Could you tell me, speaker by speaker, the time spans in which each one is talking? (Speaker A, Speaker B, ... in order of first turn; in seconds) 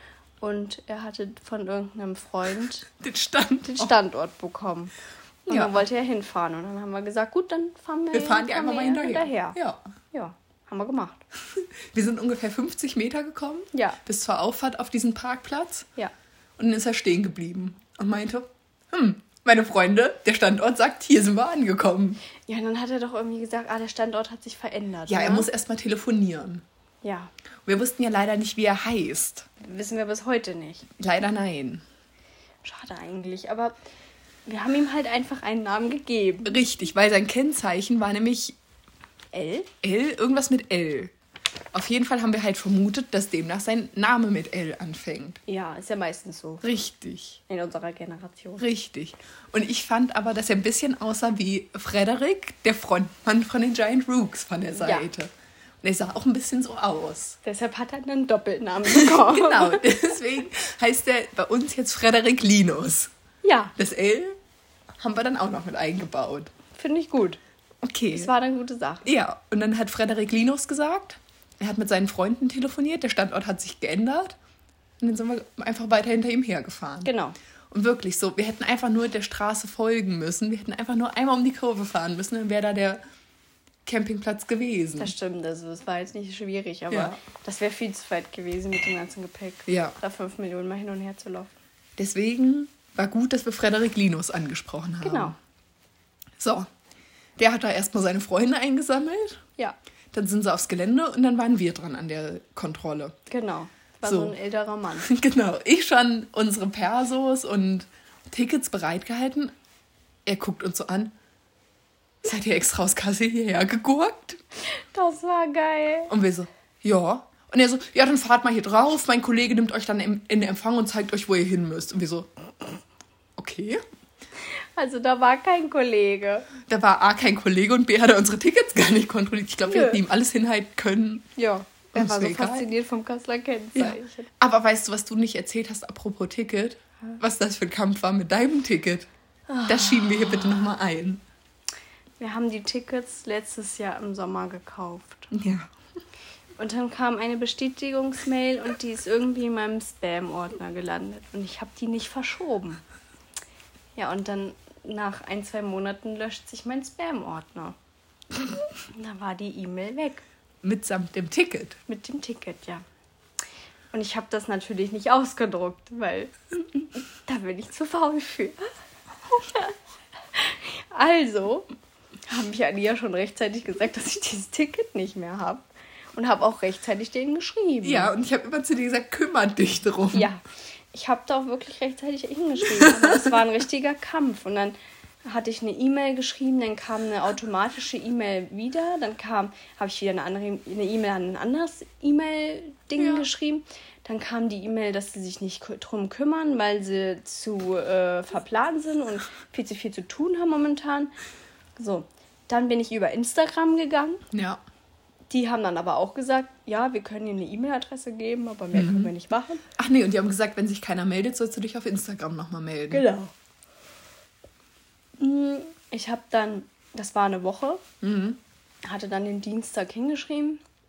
Speaker A: 0.4-2.9, 3.7-4.9, 5.5-9.6, 10.1-11.2, 13.7-14.0, 22.5-25.5, 27.0-27.3, 29.6-30.9, 32.6-33.7, 34.5-36.6, 39.3-39.7, 45.5-46.7, 47.5-48.6, 54.8-55.1, 57.4-59.9, 63.4-63.7, 66.8-67.4, 68.1-69.0, 77.0-77.4, 85.0-91.5, 95.0-95.3, 103.3-105.1, 114.6-116.1, 124.8-126.5, 129.7-130.0, 131.4-134.3, 139.5-140.4, 142.2-145.3, 146.6-152.8, 154.0-157.8, 158.8-160.2, 161.9-162.8, 163.9-168.7, 169.4-169.7, 170.3-171.7, 172.3-175.7, 176.2-178.1, 180.1-201.1, 201.8-204.2, 205.3-209.6, 212.9-213.3, 215.2-217.8, 218.8-220.6
Speaker B: 2.9-4.0, 5.5-5.8, 8.1-9.8, 11.6-15.9, 16.6-22.2, 25.1-26.6, 27.7-29.5, 31.0-31.8, 36.5-38.6, 39.8-41.1, 41.7-45.4, 46.6-47.4, 48.6-55.3, 55.8-57.4, 58.9-63.1, 63.8-64.4, 65.0-66.5, 67.8-68.3, 69.0-74.4, 75.0-77.1, 77.7-83.0, 83.9-85.1, 86.9-87.2, 89.7-90.0, 92.0-95.3, 96.4-96.7, 97.4-99.4, 100.1-103.2, 104.1-104.3, 105.0-109.5, 110.3-111.2, 112.2-114.4, 116.1-122.3, 123.4-123.8, 126.7-131.3, 131.9-132.7, 133.8-139.1, 139.7-141.2, 145.3-145.7, 160.6-161.8, 177.8-180.3, 182.8-183.3, 193.0-193.2, 204.3-204.6, 208.7-209.1, 209.8-213.1, 218.0-218.4